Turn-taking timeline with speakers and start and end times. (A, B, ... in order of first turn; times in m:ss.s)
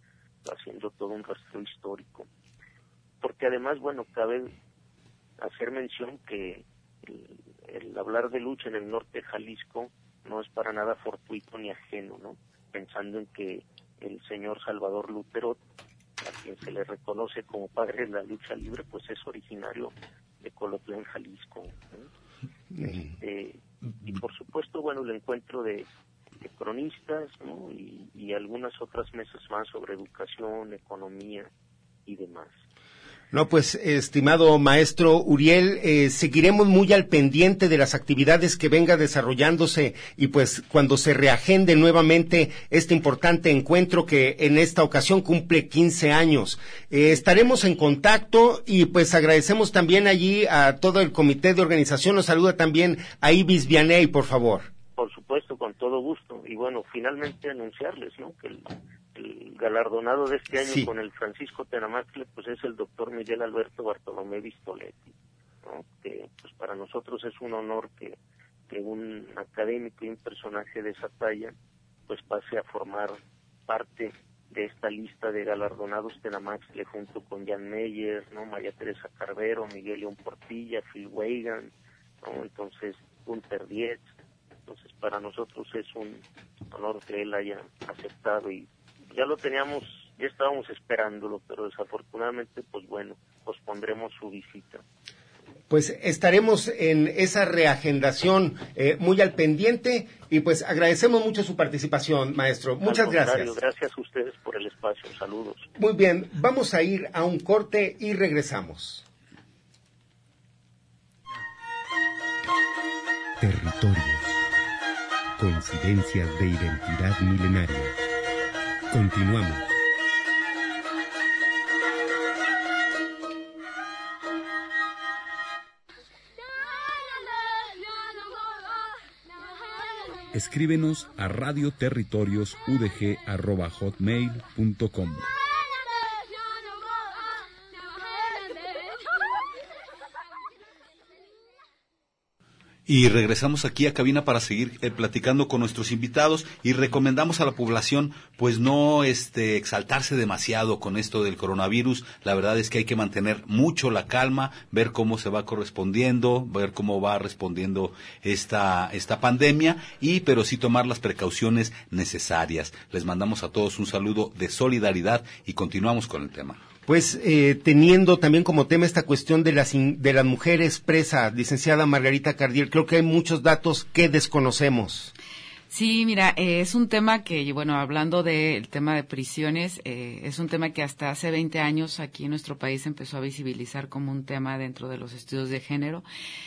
0:00.4-0:02.3 A
0:03.2-0:04.5 A
0:05.4-0:15.6 A
0:16.2-0:22.1 A
0:22.8-0:25.9 A
0:26.4-0:31.5 A
0:32.1-0:32.6 A
0:33.3-0:54.7 B
0:55.0-1:05.1 A
1:00.6-1:00.9 B
1:05.6-1:08.2 A
1:08.7-1:11.5 A
1:12.1-1:21.7 A
1:22.2-1:24.1 A
1:24.7-1:34.8 A
1:35.7-1:43.6 B
1:42.8-1:45.7 A
1:45.8-1:49.0 B
1:53.4-1:54.4 B
1:55.4-1:58.0 B
1:58.9-1:59.8 B
2:10.3-2:15.3 C
2:22.9-2:46.6 D
2:46.9-2:55.1 B
2:55.7-3:06.0 E